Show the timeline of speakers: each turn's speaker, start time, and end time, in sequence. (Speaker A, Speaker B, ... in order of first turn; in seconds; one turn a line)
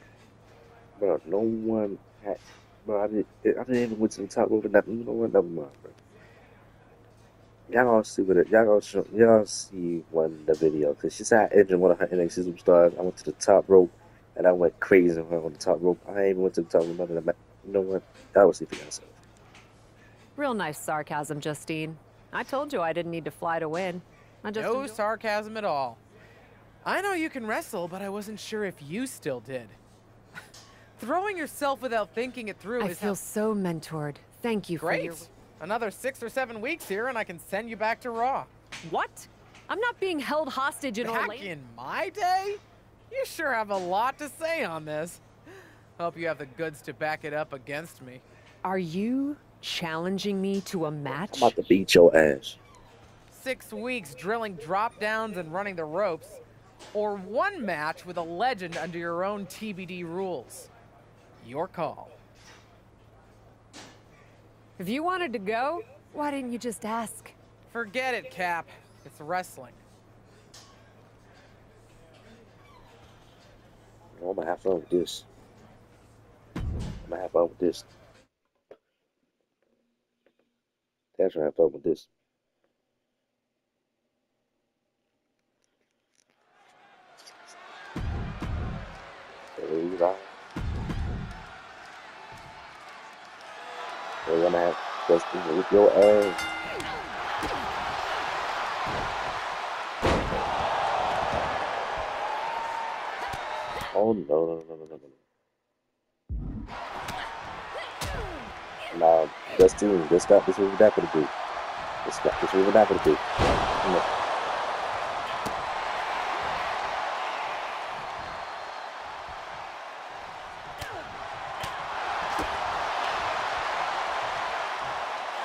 Speaker A: 1.0-6.0
Speaker A: 7.7-19.2
Speaker B: 20.4-25.0
Speaker C: 24.6-26.0
Speaker C: 26.8-29.8
Speaker C: 31.0-33.2
Speaker B: 32.8-35.3
Speaker C: 34.8-38.5
Speaker B: 38.8-41.5
Speaker C: 41.0-45.2
Speaker C: 46.0-48.2
Speaker B: 48.6-51.5
Speaker A: 51.1-52.6
Speaker C: 53.3-56.4
Speaker C: 56.9-60.7
Speaker C: 61.4-62.1
Speaker B: 64.8-67.4
Speaker C: 67.7-69.8
Speaker A: 74.1-75.3
Speaker A: 77.0-77.9
Speaker A: 81.2-82.1
Speaker A: 89.6-90.3
Speaker A: 94.2-96.4
Speaker A: 103.9-105.2
Speaker A: 108.9-111.3
Speaker A: 112.0-113.3
Speaker A: 113.8-114.1